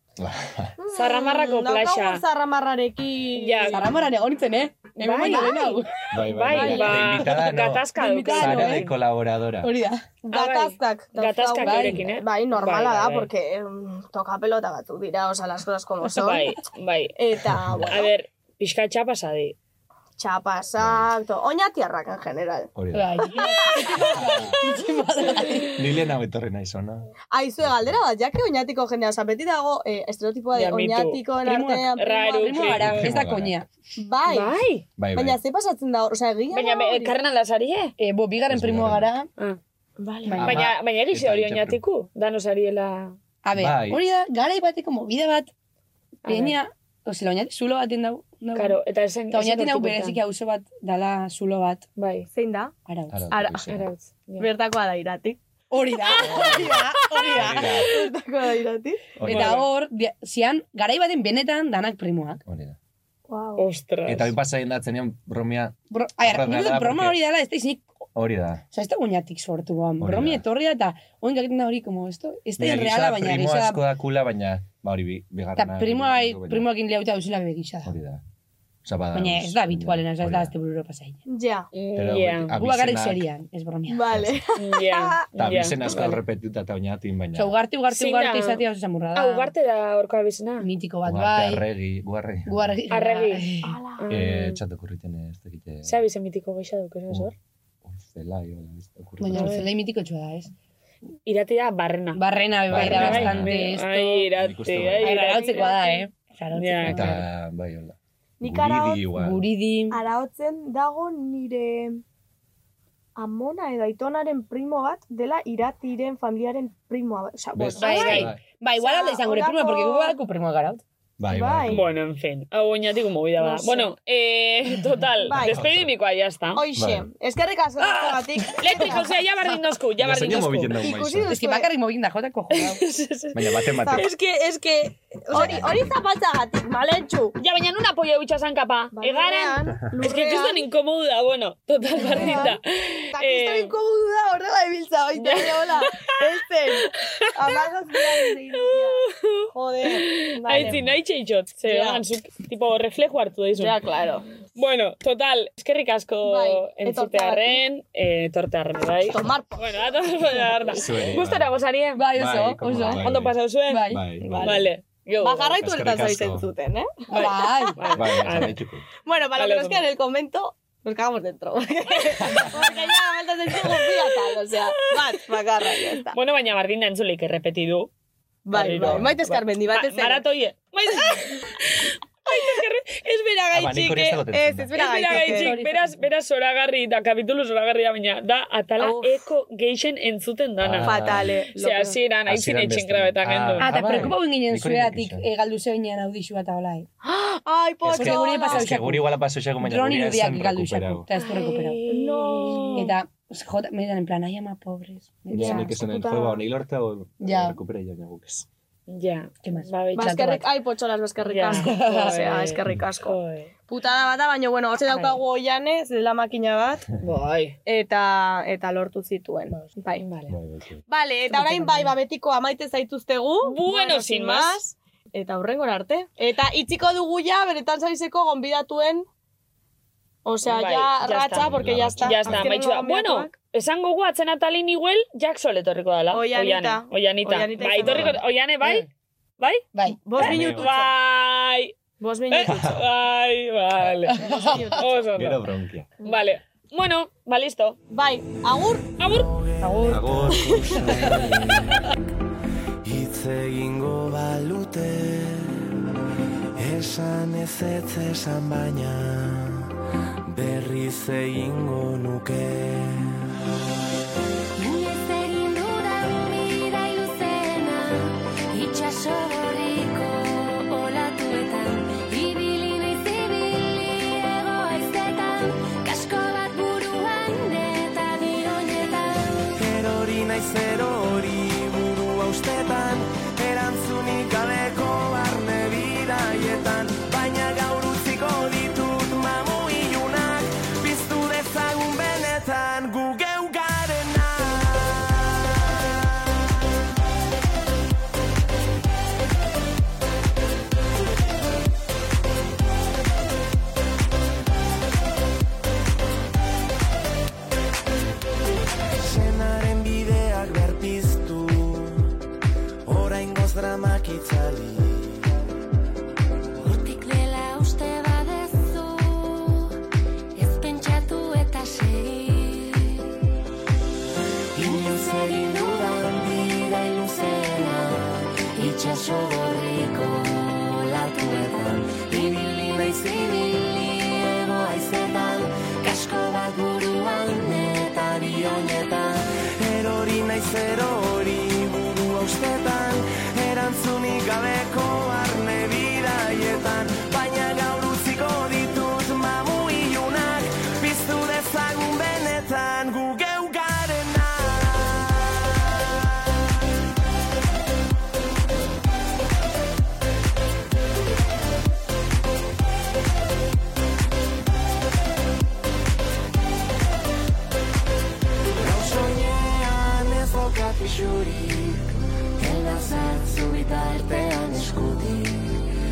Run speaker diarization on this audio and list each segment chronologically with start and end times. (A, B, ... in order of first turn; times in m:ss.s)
0:00.2-0:00.8 A
0:00.8-0:04.0 B
0:00.9-0:02.2 C
0:03.4-0:03.9 C
0:03.7-0:06.1 D
0:05.0-0:09.0 C
0:05.3-0:05.8 B
0:06.1-0:09.7 A
0:06.5-0:07.1 B
0:06.6-0:07.3 D
0:08.0-0:08.9 D
0:09.6-0:10.0 D
0:10.2-0:16.5 B
0:10.3-0:13.3 C
0:11.6-0:12.1 D
0:16.1-0:17.2 C
0:17.2-0:18.1 B
0:17.9-0:19.6 C
0:20.2-0:24.4 B
0:20.8-0:21.1 A
0:22.8-0:23.4 A
0:22.9-0:25.8 D
0:24.1-0:24.6 A
0:25.7-0:28.0 A
0:27.3-0:32.7 B
0:30.6-0:31.2 C
0:31.4-0:33.7 D
0:32.0-0:33.1 C
0:32.6-0:33.6 A
0:34.0-0:34.6 B
0:34.3-0:34.8 C
0:35.0-0:35.4 A
0:35.1-0:37.2 B
0:36.5-0:37.9 C
0:38.0-0:39.3 D
0:38.5-0:39.1 A
0:40.0-0:40.6 B
0:40.3-0:40.6 D
0:40.4-0:41.8 A
0:40.4-0:43.2 C
0:43.4-0:45.5 D
0:43.6-0:44.0 A
0:46.2-0:46.6 C
0:46.3-0:51.9 D
0:48.6-0:50.2 C
0:52.0-0:52.3 C
0:52.3-0:52.8 B
0:52.9-0:53.6 D
0:53.1-0:53.9 A
0:53.3-0:53.8 B
0:53.7-0:54.5 C
0:54.4-0:55.4 B
0:55.7-0:57.7 D
0:56.0-0:59.3 B
0:56.3-0:56.6 A
0:57.4-0:57.9 A
0:59.2-0:59.7 A
0:59.2-1:02.4 D
1:02.5-1:02.8 A
1:03.3-1:03.7 B
1:03.6-1:04.4 C
1:04.1-1:07.2 A
1:05.9-1:07.9 D
1:08.2-1:08.6 A
1:08.7-1:13.8 D
1:10.0-1:10.4 A
1:12.6-1:16.7 A
1:15.6-1:17.9 D
1:17.8-1:18.2 A
1:18.8-1:20.5 A
1:19.1-1:21.2 D
1:21.3-1:21.7 B
1:21.7-1:22.6 C
1:22.0-1:23.2 A
1:22.6-1:24.0 D
1:23.9-1:25.3 B
1:24.1-1:24.4 A
1:24.6-1:26.2 C
1:25.4-1:27.5 A
1:25.8-1:26.2 D
1:27.4-1:29.5 D
1:27.9-1:28.6 C
1:29.2-1:30.7 C
1:30.6-1:31.6 D
1:31.0-1:32.8 A
1:32.5-1:33.8 D
1:32.9-1:33.5 C
1:33.6-1:34.1 B
1:34.0-1:34.6 C
1:34.1-1:36.0 A
1:35.8-1:37.4 C
1:37.8-1:39.7 A
1:39.2-1:40.5 D
1:39.3-1:39.7 C
1:41.3-1:45.8 C
1:42.2-1:44.3 D
1:42.7-1:43.6 A
1:44.4-1:45.2 A
1:45.0-1:46.0 B
1:45.0-1:47.3 D
1:46.5-1:47.2 C
1:46.9-1:49.5 A
1:48.4-1:49.1 B
1:49.1-1:50.0 D
1:49.9-1:52.0 B
1:53.2-2:00.2 B
1:57.6-1:58.4 A
1:57.8-1:58.3 C
1:57.8-2:00.8 D
2:01.2-2:01.9 A
2:01.2-2:01.8 B
2:01.7-2:06.6 C
2:03.4-2:03.9 B
2:05.2-2:05.6 B
2:05.4-2:05.9 A
2:06.6-2:09.1 B
2:06.8-2:07.1 A
2:07.8-2:09.0 D
2:08.6-2:10.9 C
2:10.0-2:11.4 A
2:10.8-2:11.7 B
2:11.3-2:12.8 D
2:12.5-2:15.7 C
2:13.3-2:14.1 A
2:13.8-2:14.1 B
2:15.3-2:15.9 A
2:15.3-2:17.4 B
2:17.4-2:23.8 C
2:18.9-2:20.6 B
2:22.0-2:22.6 B
2:23.1-2:30.9 B
2:25.2-2:26.2 C
2:26.8-2:33.8 C
2:30.6-2:30.9 A
2:31.6-2:32.0 B
2:33.6-2:34.4 B
2:34.6-2:42.0 C
2:36.2-2:37.6 B
2:39.1-2:40.0 B
2:40.7-2:41.6 A
2:42.0-2:43.0 D
2:42.1-2:43.4 A
2:42.6-2:43.0 B
2:42.9-2:45.6 C
2:43.7-2:44.1 D
2:43.9-2:44.7 A
2:44.2-2:44.7 B
2:45.2-2:47.7 B
2:45.6-2:46.5 A
2:47.1-2:47.8 D
2:47.1-2:48.6 C
2:47.9-2:48.8 A
2:49.0-2:56.2 B
2:49.4-2:49.9 C
2:52.2-2:52.5 A
2:54.4-2:57.9 C
2:58.5-3:00.2 B
2:58.5-3:03.1 C
2:58.8-2:59.2 A
3:01.0-3:01.3 B
3:03.1-3:05.6 B
3:03.5-3:04.8 A
3:04.8-3:11.0 C
3:05.1-3:06.0 D
3:08.8-3:09.2 B
3:10.6-3:11.3 A
3:10.8-3:12.0 B
3:11.6-3:13.8 C
3:12.3-3:15.3 A
3:13.6-3:16.9 D
3:17.0-3:18.7 B
3:17.8-3:21.1 A
3:17.9-3:21.8 D
3:21.1-3:22.8 C
3:21.9-3:22.9 B
3:22.8-3:26.3 D
3:25.3-3:25.7 B
3:25.3-3:28.5 A
3:27.2-3:27.6 D
3:28.9-3:30.4 C
3:29.4-3:30.4 D
3:30.0-3:33.2 B
3:31.3-3:33.5 C
3:31.5-3:32.1 D
3:33.7-3:36.9 B
3:34.9-3:35.2 C
3:37.0-3:37.6 C
3:37.7-3:40.0 B
3:40.0-3:40.4 C
3:40.3-3:40.8 A
3:40.9-3:49.1 B
3:41.4-3:41.9 D
3:43.4-3:44.6 C
3:50.2-3:53.4 B
3:50.5-3:58.9 C
3:51.3-3:52.5 A
3:56.1-3:58.2 B
3:57.8-3:58.2 A
3:59.4-4:01.8 C
3:59.8-4:00.9 B
4:00.2-4:00.7 A
4:02.0-4:02.8 B
4:02.3-4:04.2 C
4:02.5-4:02.8 A
4:04.1-4:05.1 B
4:04.2-4:04.8 D
4:04.8-4:05.4 C
4:05.2-4:05.9 A
4:06.0-4:07.8 C
4:06.0-4:06.3 B
4:07.9-4:08.9 B
4:09.0-4:09.3 C
4:09.0-4:11.9 E
4:09.6-4:10.1 D
4:09.9-4:10.5 A
4:10.3-4:10.8 B
4:11.0-4:11.3 D
4:12.8-4:15.7 E
4:16.6-4:19.7 E
4:20.3-4:23.3 E
4:24.6-4:39.5 F
4:39.5-4:55.4 E
5:09.0-5:12.2 E
5:12.9-5:15.4 E
5:16.6-5:19.8 F
5:20.4-5:23.1 F
5:24.6-5:27.3 E
5:25.0-5:26.2 F
5:27.0-5:30.2 F
5:29.8-5:33.7 E
5:31.1-5:31.4 F
5:32.0-5:34.6 F
5:34.6-5:55.4 E
5:36.6-5:38.0 F
6:08.6-6:15.5 E
6:13.8-6:14.6 F